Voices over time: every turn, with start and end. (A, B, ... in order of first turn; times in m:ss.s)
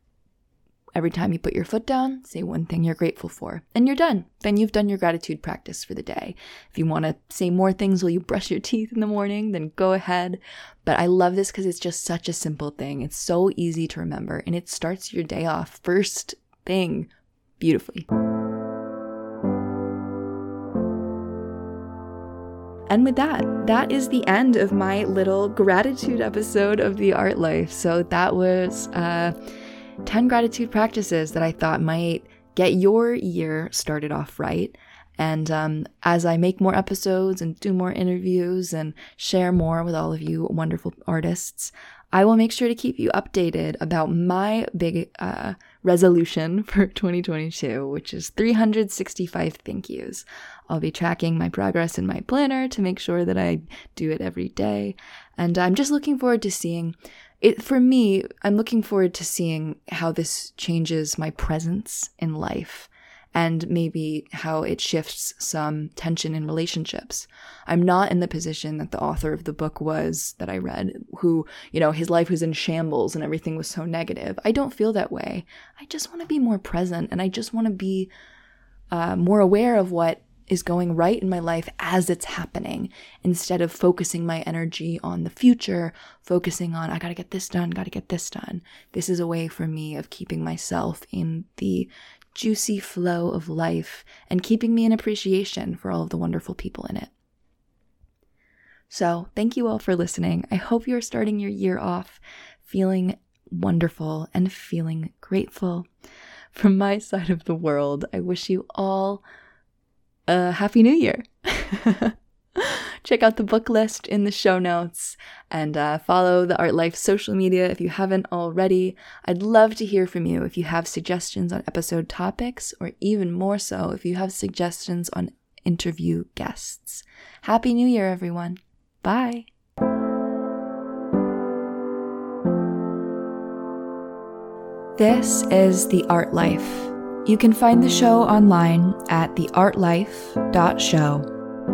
0:01.0-0:18.1 A
0:22.9-0:29.3 A
0:30.0-1:18.1 A
1:18.9-1:37.1 A
1:38.9-1:45.9 A
1:46.5-1:49.2 A
1:50.3-2:09.5 A
2:15.0-2:21.3 A